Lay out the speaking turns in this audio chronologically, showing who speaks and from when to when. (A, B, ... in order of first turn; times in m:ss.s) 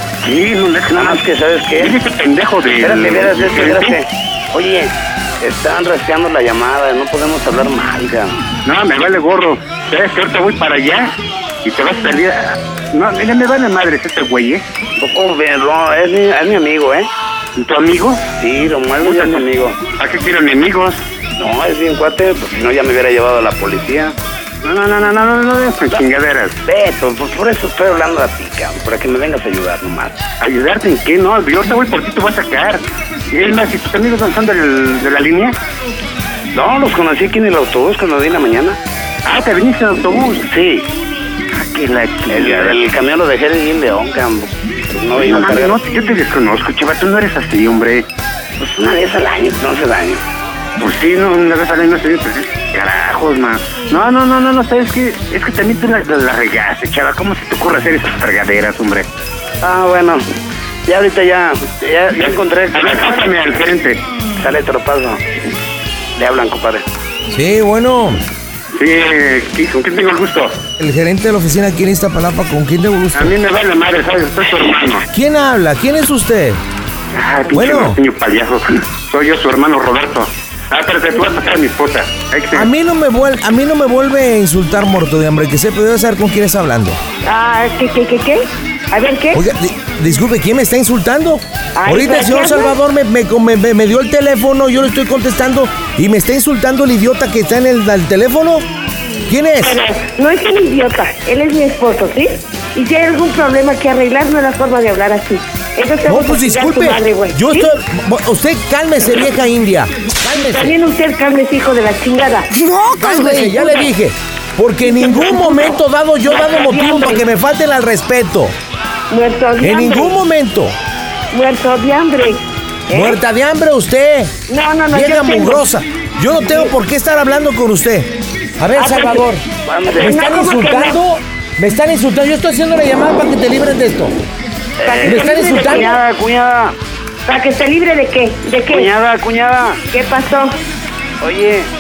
0:00.2-0:01.2 A
0:00.9-0:02.0 B
0:01.8-0:04.0 A
0:02.8-0:08.4 B
0:08.6-0:14.6 A
0:15.0-0:17.1 B
0:17.6-0:18.2 A
0:18.4-0:19.8 B
0:19.0-0:19.4 A
0:20.0-0:21.0 A
0:21.4-0:24.2 B
0:24.6-0:26.6 A
0:26.7-0:30.2 B
0:30.4-0:35.6 A
0:36.5-0:38.8 B
0:39.2-0:40.5 A
0:40.5-0:40.8 B
0:41.7-0:42.8 A
0:41.8-0:45.8 B
0:45.2-0:48.1 A
0:48.6-0:50.2 B
0:50.8-0:59.1 A
0:59.6-1:00.2 B
1:00.9-1:03.3 B
1:02.2-1:04.0 A
1:04.4-1:05.2 B
1:06.2-1:06.8 B
1:07.3-1:08.2 C
1:08.8-1:10.6 A
1:10.8-1:13.3 C
1:13.1-1:15.0 A
1:15.1-1:16.6 C
1:17.1-1:22.7 A
1:17.5-1:18.0 C
1:22.5-1:27.0 C
1:27.2-1:29.4 D
1:29.3-1:38.7 C
1:31.8-1:32.8 D
1:39.3-1:39.8 C
1:39.6-1:47.7 D
1:46.1-1:50.8 C
1:50.4-1:52.5 D
1:52.9-1:58.6 C
1:53.2-1:53.8 D
1:54.8-1:55.8 D
1:56.3-1:57.2 D
1:59.1-2:00.2 D
1:59.6-2:00.7 C
2:01.3-2:03.2 D
2:02.9-2:04.4 C
2:04.5-2:05.6 D
2:04.9-2:09.4 C
2:06.4-2:06.7 D
2:08.8-2:09.3 D
2:09.7-2:10.2 B
2:09.9-2:11.0 D
2:10.0-2:14.2 C
2:14.8-2:16.8 B
2:14.8-2:16.0 D
2:15.0-2:15.9 C
2:17.3-2:18.9 D
2:18.7-2:19.8 B
2:19.9-2:20.5 D
2:21.2-2:21.7 B